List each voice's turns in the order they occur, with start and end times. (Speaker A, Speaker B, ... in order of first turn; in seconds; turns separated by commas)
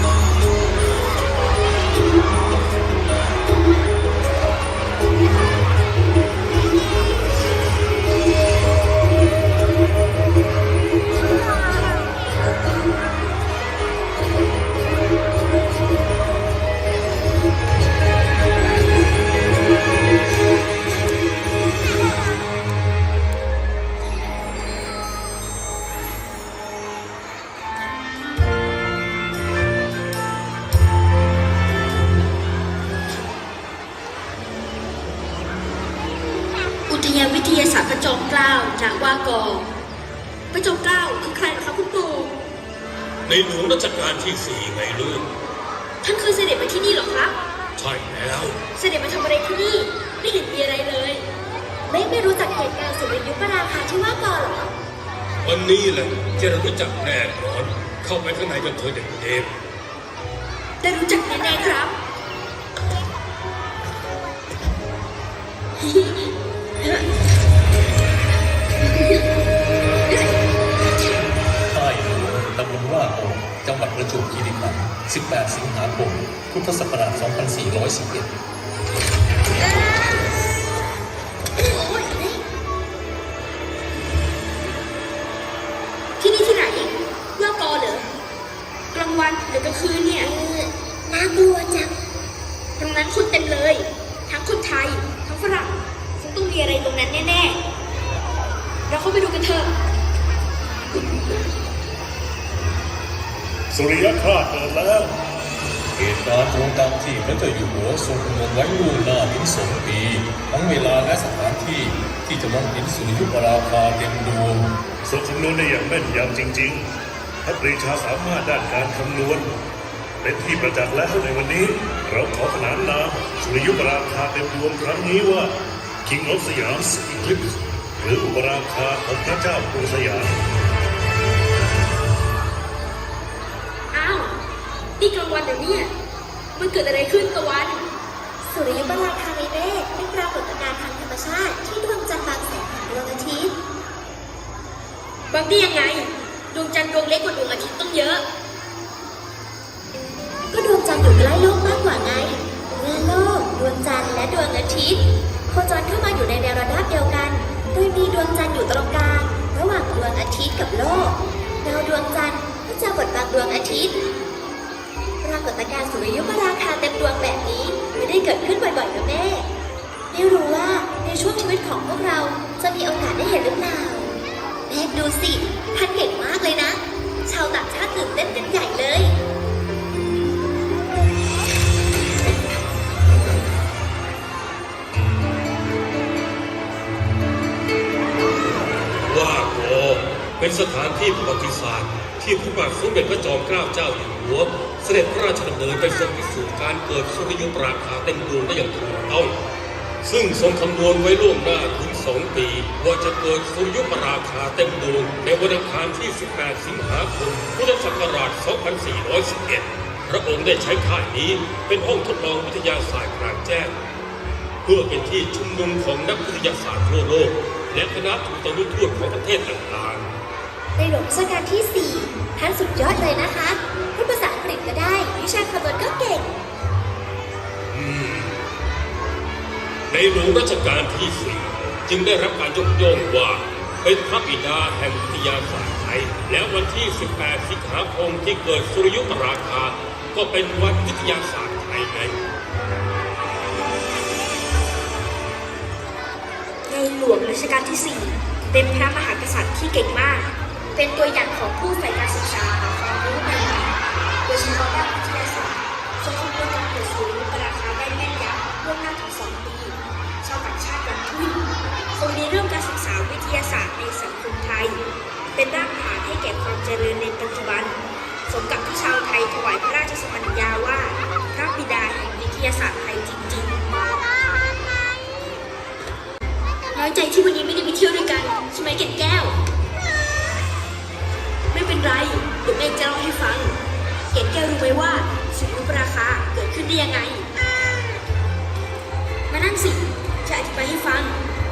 Speaker A: 36.9-39.6, Speaker A: 40.5-42.3, Speaker B: 43.2-45.3, Speaker A: 46.0-47.3, Speaker B: 47.8-48.6, Speaker A: 48.7-51.2, Speaker C: 51.9-54.7, Speaker B: 55.4-59.5, Speaker A: 60.8-61.9, Speaker A: 65.8-66.3, Speaker A: 66.8-67.0, Speaker A: 68.8-69.2, Speaker D: 71.7-78.3, Speaker A: 79.6-80.2, Speaker C: 81.6-82.4, Speaker A: 86.2-88.1, Speaker A: 88.9-90.3, Speaker C: 90.2-91.9, Speaker A: 92.8-97.6, Speaker A: 98.9-99.7, Speaker E: 103.7-105.1, Speaker D: 106.0-114.7, Speaker E: 115.0-116.8, Speaker E: 117.4-119.5, Speaker E: 120.2-125.5, Speaker E: 126.0-130.3, Speaker A: 133.9-134.3, Speaker A: 135.0-135.9, Speaker A: 136.5-137.8, Speaker C: 138.4-143.5, Speaker A: 145.3-148.2, Speaker C: 150.5-163.9, Speaker C: 165.2-169.5, Speaker C: 170.1-174.1, Speaker C: 174.7-179.2, Speaker B: 189.0-199.4, Speaker B: 200.0-213.8, Speaker B: 214.6-220.1, Speaker C: 220.8-226.3, Speaker B: 227.7-228.3, Speaker B: 229.9-242.2, Speaker A: 246.7-253.7, Speaker A: 254.3-261.4, Speaker A: 262.0-264.8, Speaker A: 265.4-267.7, Speaker A: 268.3-273.5, Speaker A: 276.7-279.4, Speaker A: 281.5-283.6, Speaker A: 284.1-287.3, Speaker A: 289.3-291.2